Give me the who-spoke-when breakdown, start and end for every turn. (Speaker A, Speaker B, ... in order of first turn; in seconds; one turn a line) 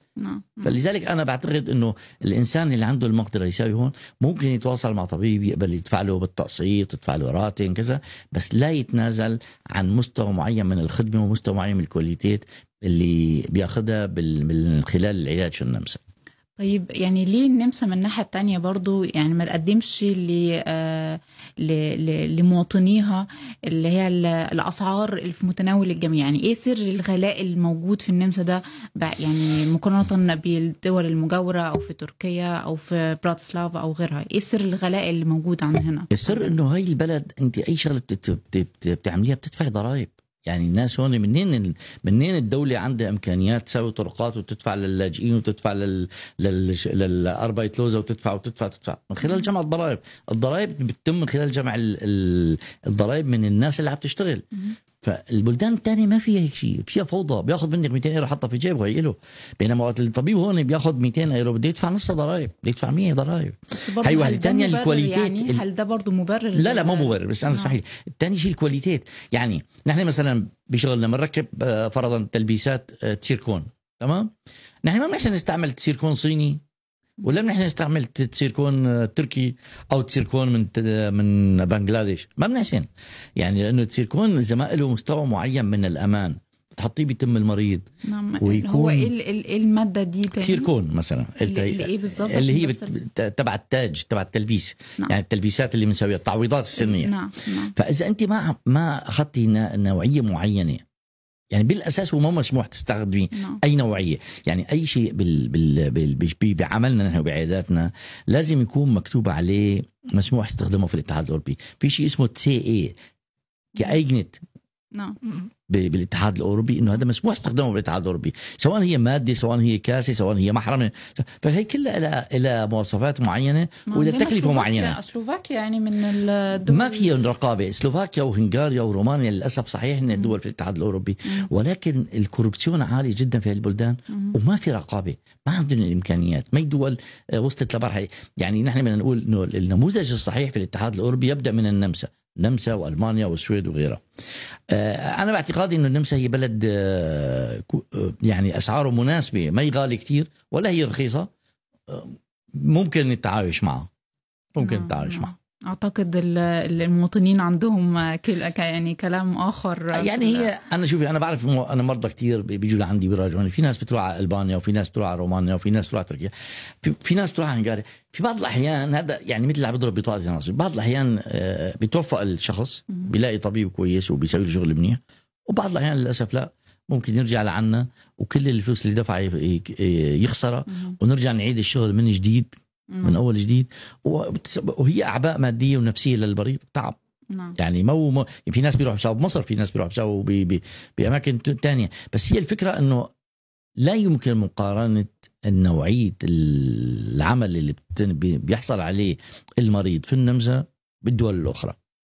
Speaker A: 0.2-0.8
Speaker B: 0.6-16.0
Speaker A: 16.6-36.5
Speaker B: 36.1-54.4
Speaker B: 55.0-65.6
Speaker A: 63.7-67.8
Speaker B: 66.5-74.3
Speaker B: 74.8-76.6
Speaker B: 77.2-87.9
Speaker A: 88.0-90.7
Speaker B: 88.4-89.1
Speaker B: 90.3-97.2
Speaker A: 91.4-92.9
Speaker A: 96.7-97.7
Speaker B: 97.7-100.8
Speaker B: 101.5-112.9
Speaker A: 103.3-103.6
Speaker B: 113.8-114.4
Speaker B: 115.7-125.0
Speaker A: 123.9-127.1
Speaker B: 126.7-144.0
Speaker A: 134.1-134.4
Speaker B: 144.7-151.3
Speaker B: 151.9-153.9
Speaker B: 154.6-155.3
Speaker A: 154.6-160.5
Speaker B: 159.9-182.5
Speaker A: 180.7-180.9
Speaker A: 182.9-183.2
Speaker B: 183.0-187.0
Speaker B: 187.6-193.1
Speaker B: 193.8-201.8